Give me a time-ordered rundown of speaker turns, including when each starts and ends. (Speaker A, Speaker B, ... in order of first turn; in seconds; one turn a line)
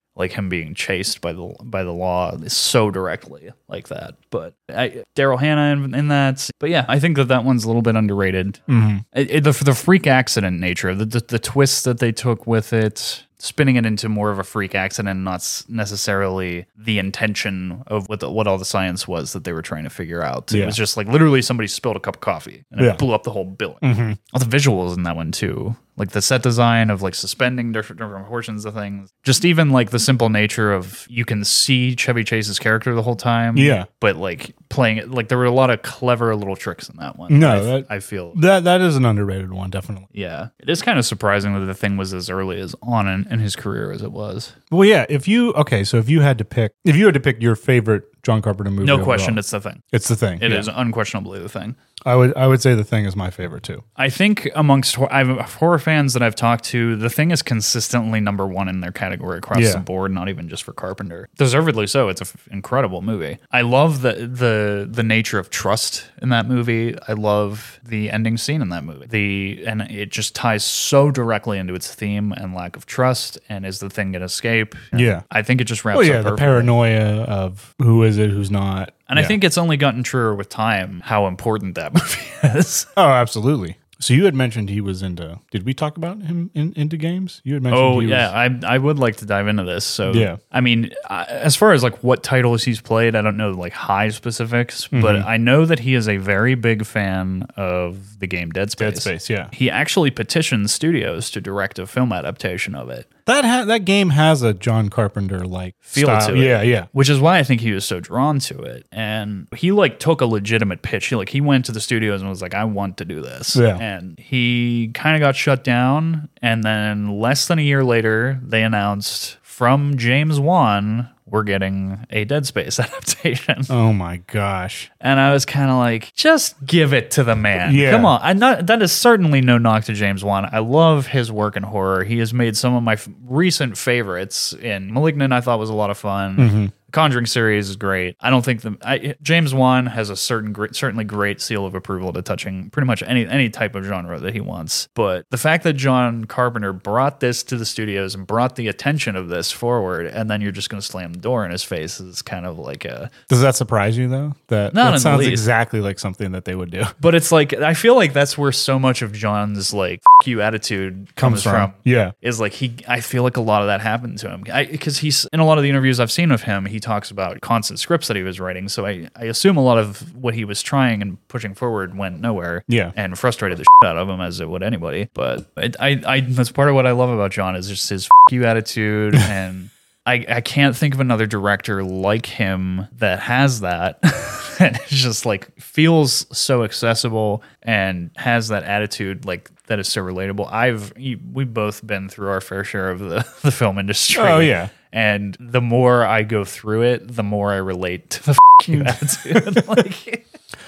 Speaker A: 0.1-8.6
Speaker B: 8.7-9.0
Speaker A: 9.1-38.4
Speaker B: 20.5-20.8
Speaker B: 23.8-24.2
Speaker B: 33.5-33.9
Speaker B: 37.3-40.1
Speaker A: 40.1-44.5
Speaker B: 44.7-49.4
Speaker A: 48.8-49.8
Speaker B: 49.9-50.7
Speaker A: 50.4-51.8
Speaker B: 52.0-53.8
Speaker A: 54.0-76.7
Speaker B: 59.5-59.8
Speaker B: 74.9-75.2
Speaker B: 75.9-79.3
Speaker A: 79.1-82.9
Speaker B: 83.0-88.3
Speaker A: 87.7-103.1
Speaker B: 90.1-90.4
Speaker B: 94.9-95.3
Speaker B: 98.8-99.5
Speaker B: 103.3-106.9
Speaker A: 105.9-123.7
Speaker B: 113.5-113.8
Speaker B: 123.7-124.9
Speaker A: 125.0-153.1
Speaker B: 127.6-128.1
Speaker B: 136.4-136.7
Speaker B: 153.3-156.9
Speaker A: 154.7-155.4
Speaker A: 157.0-200.2
Speaker B: 161.2-162.1
Speaker B: 172.7-172.9
Speaker B: 194.1-194.7
Speaker B: 198.7-199.8